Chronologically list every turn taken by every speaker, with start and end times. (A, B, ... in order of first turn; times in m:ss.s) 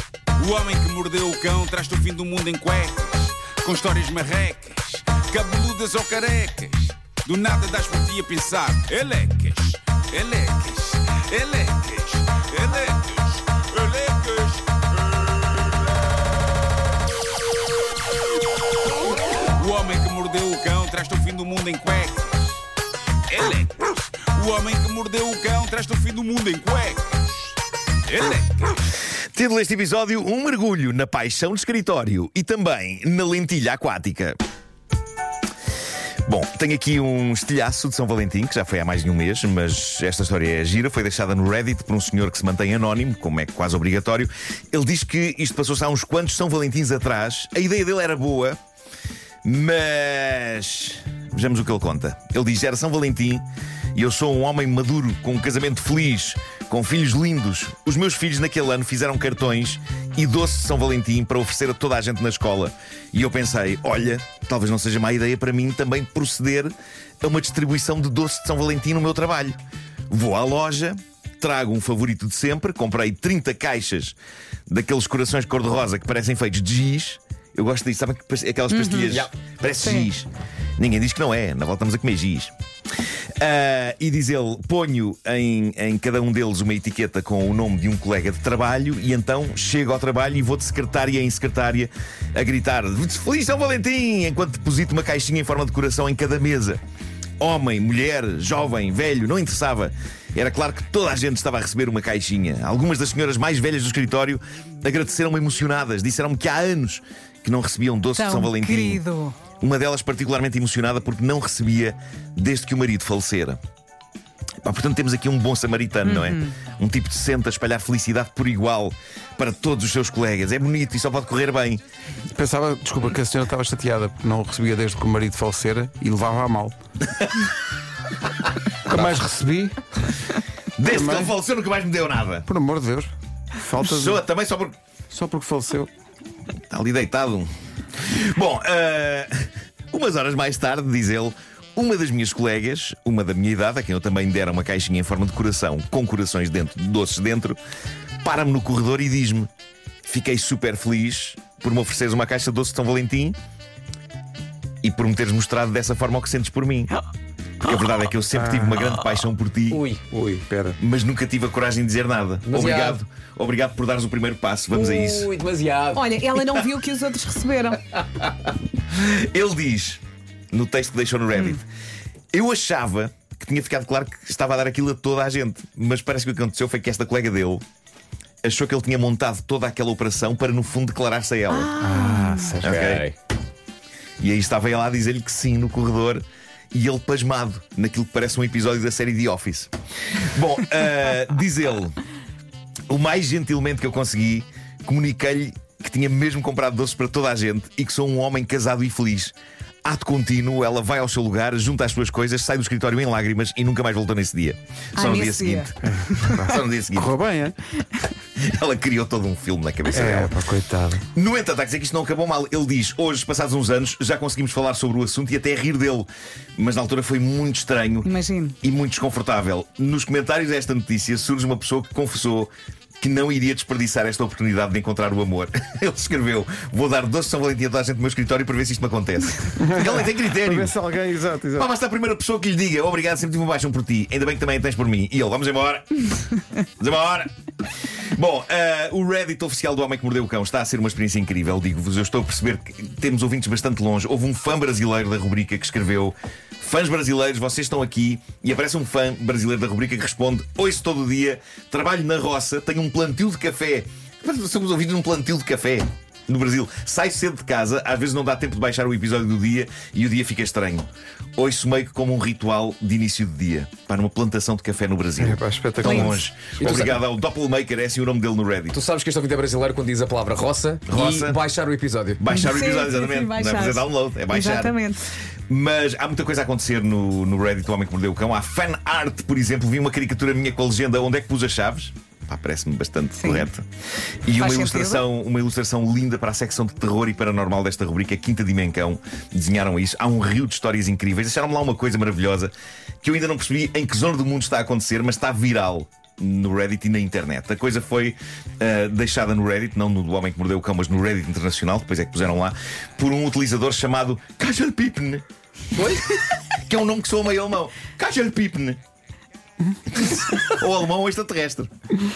0:00.4-0:15.9 A
0:19.4-0:22.6 A
0:23.3-0:28.8 A
0:29.3-0:34.4 B
0:36.3-0:48.6 B
0:49.4-0:53.4 B
0:53.9-1:09.6 B
1:10.1-1:14.2 B
1:14.7-1:22.5 B
1:18.7-1:19.2 C
1:19.1-1:19.4 D
1:19.8-1:20.1 C
1:23.4-1:36.8 B
1:37.4-1:49.0 B
1:48.2-1:49.4 C
1:49.6-1:53.6 B
1:54.6-2:01.8 B
1:56.1-1:56.5 C
2:02.3-2:06.7 E
2:07.2-2:07.4 B
2:08.9-2:09.8 E
2:08.9-2:09.2 B
2:10.8-2:12.4 B
2:10.9-2:11.3 E
2:12.4-2:14.2 E
2:13.8-2:14.7 B
2:15.1-2:15.9 E
2:16.7-2:27.6 B
2:28.2-2:29.5 B
2:30.0-2:33.4 B
2:34.8-2:36.9 B
2:37.6-2:39.8 B
2:38.3-2:38.8 E
2:39.7-2:40.4 D
2:40.1-2:40.8 E
2:40.8-2:45.3 B
2:42.4-2:43.0 D
2:44.7-2:46.2 D
2:45.9-2:47.8 C
2:48.9-2:50.0 B
2:50.5-2:51.6 B
2:52.3-2:57.6 B
2:58.4-3:01.7 B
3:01.5-3:02.5 C
3:01.8-3:02.7 E
3:02.6-3:03.1 D
3:02.6-3:03.0 B
3:04.2-3:11.9 B
3:12.9-3:19.3 B
3:19.8-3:27.1 B
3:25.0-3:26.4 C
3:25.8-3:27.6 E
3:28.4-3:30.4 B
3:29.9-3:31.0 E
3:31.1-3:38.1 B
3:38.0-3:38.6 C
3:38.6-3:50.8 B
3:49.6-3:51.7 E
3:51.5-3:56.0 B
3:56.8-3:57.3 B
3:58.1-4:28.8 B
4:25.2-4:26.2 E
4:25.8-4:26.1 C
4:26.6-4:27.0 D
4:28.7-4:32.2 D
4:30.9-4:31.4 B
4:32.2-4:34.9 B
4:32.3-4:35.0 C
4:35.5-4:43.6 B
4:43.2-4:43.5 C
4:44.3-4:52.5 B
4:44.4-4:45.0 C
4:53.0-5:05.2 B
5:05.7-5:06.1 D
5:06.6-5:08.8 B
5:09.9-5:11.7 B